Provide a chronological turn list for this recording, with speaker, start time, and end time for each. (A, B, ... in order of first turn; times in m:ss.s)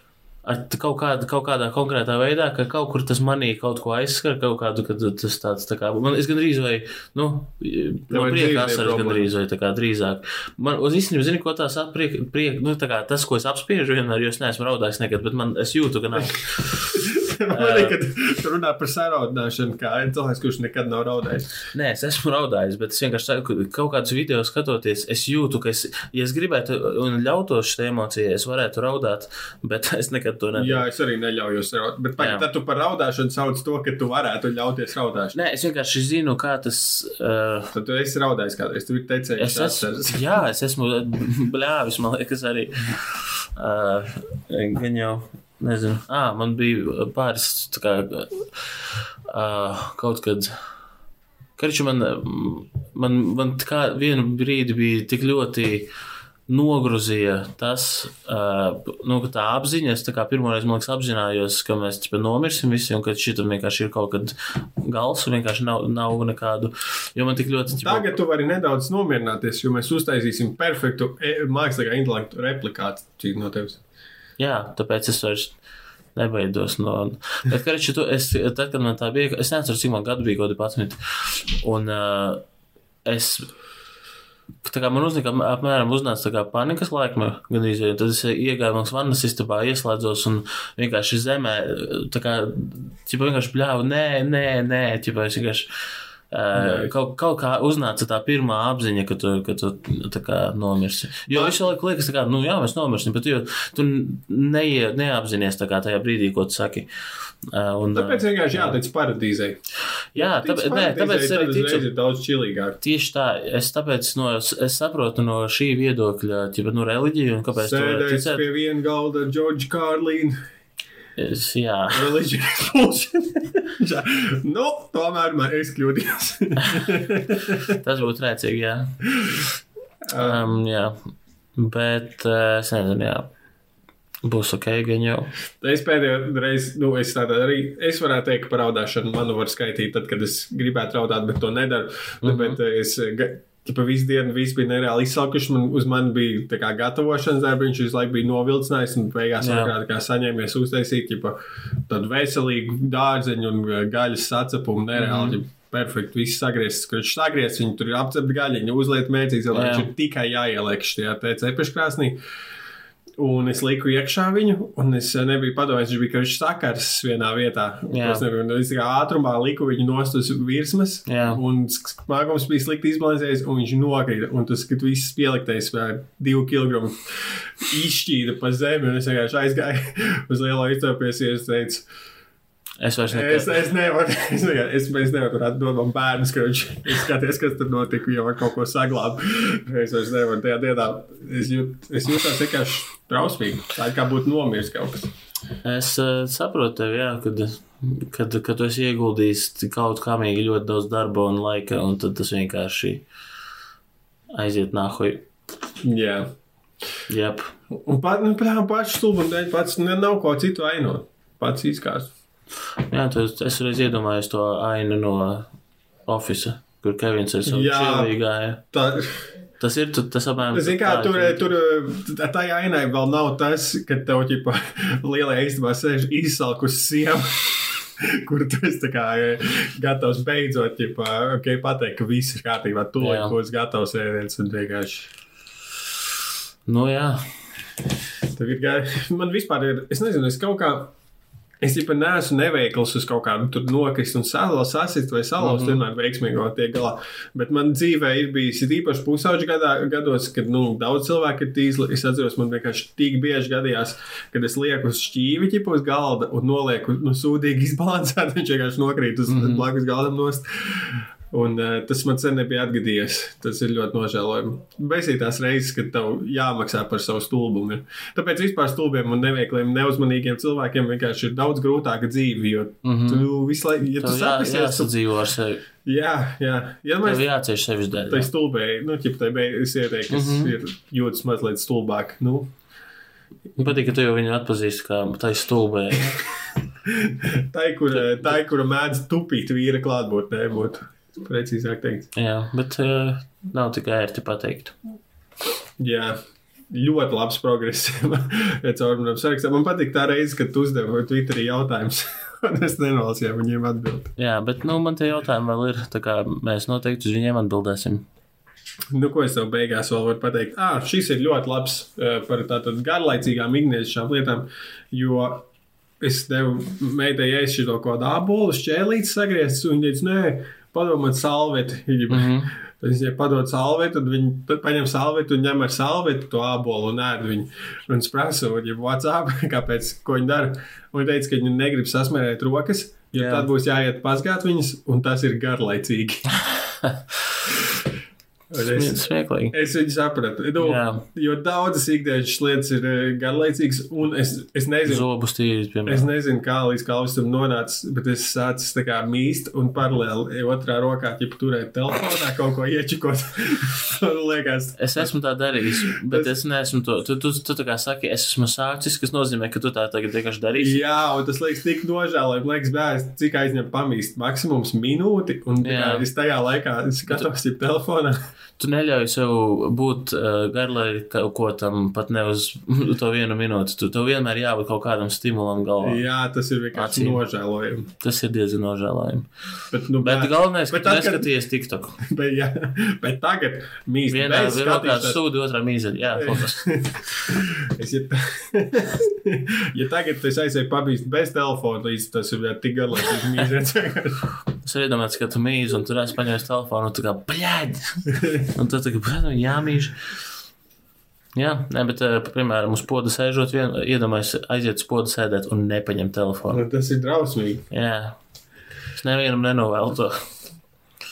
0:00.4-0:18.0 A
0:08.1-0:09.3 B
0:16.9-0:21.6 B
0:21.7-0:30.8 A
0:30.5-0:35.4 B
0:32.2-0:32.5 A
0:35.3-0:37.7 A
0:37.7-0:40.2 B
0:39.4-0:50.6 A
0:51.6-0:55.9 A
0:56.5-1:08.2 A
1:07.8-1:13.8 B
1:14.4-1:15.6 A
1:16.1-1:22.4 A
1:23.0-1:23.5 A
1:24.6-1:35.7 A
1:36.3-1:46.9 A
1:36.5-1:36.9 B
1:41.3-1:41.6 B
1:47.5-1:48.8 A
1:47.9-1:49.6 B
1:50.1-1:51.8 A
1:50.1-1:52.8 B
1:52.8-1:58.4 A
1:57.5-2:00.4 B
2:01.2-2:02.1 A
2:01.9-2:07.8 B
2:07.8-2:09.4 A
2:10.0-2:10.4 B
2:10.1-2:11.0 A
2:11.5-2:13.3 A
2:14.2-2:15.3 A
2:15.6-2:31.4 B
2:22.2-2:22.6 A
2:29.4-2:29.7 A
2:31.9-2:42.2 B
2:35.0-2:35.4 A
2:39.5-2:39.9 A
2:43.2-3:01.9 B
2:47.9-2:48.2 A
2:51.1-2:51.4 A
3:02.8-3:03.6 A
3:03.1-3:15.1 B
3:15.6-3:23.0 A
3:24.3-3:25.2 A
3:25.8-3:26.3 B
3:27.1-3:27.5 A
3:27.7-3:32.1 B
3:32.9-3:35.5 A
3:36.1-3:38.6 A
3:37.4-3:38.1 B
3:38.7-3:39.3 B
3:39.6-3:41.4 A
3:40.5-3:55.1 B
3:53.0-3:53.3 A
3:56.6-3:57.3 A
3:58.3-4:00.9 B
4:01.6-4:34.9 B
4:05.4-4:05.8 A
4:19.3-4:19.7 A
4:32.8-4:33.3 A
4:34.0-4:35.6 A
4:35.8-4:37.3 B
4:37.0-4:38.3 A
4:38.1-4:42.5 B
4:40.1-4:40.5 A
4:43.6-4:46.2 A
4:46.8-4:52.1 B
4:47.9-4:48.2 A
4:52.1-4:54.8 A
4:55.8-4:56.2 B
4:56.7-5:04.1 B
5:04.2-5:08.1 A
5:08.9-5:15.5 B
5:16.0-5:36.3 B
5:22.1-5:22.5 A
5:33.1-5:33.5 A
5:36.7-5:37.0 A
5:38.5-5:45.1 B
5:38.6-5:39.5 A
5:40.6-5:41.0 A
5:44.9-5:46.1 A
5:45.8-5:55.1 B
5:54.8-6:00.8 A
5:55.9-5:56.3 B
6:00.6-6:08.2 B
6:05.6-6:06.0 A
6:08.6-6:16.0 A
6:15.8-6:17.9 B
6:16.7-6:17.2 A
6:18.0-6:19.3 A
6:19.7-6:21.3 B
6:20.0-6:22.0 A
6:22.0-6:25.2 B
6:24.1-6:26.7 A
6:26.2-6:34.2 B
6:34.6-6:40.0 A
6:41.3-6:46.6 A
6:46.5-6:47.7 B
6:47.7-6:48.2 A
6:48.9-6:50.3 A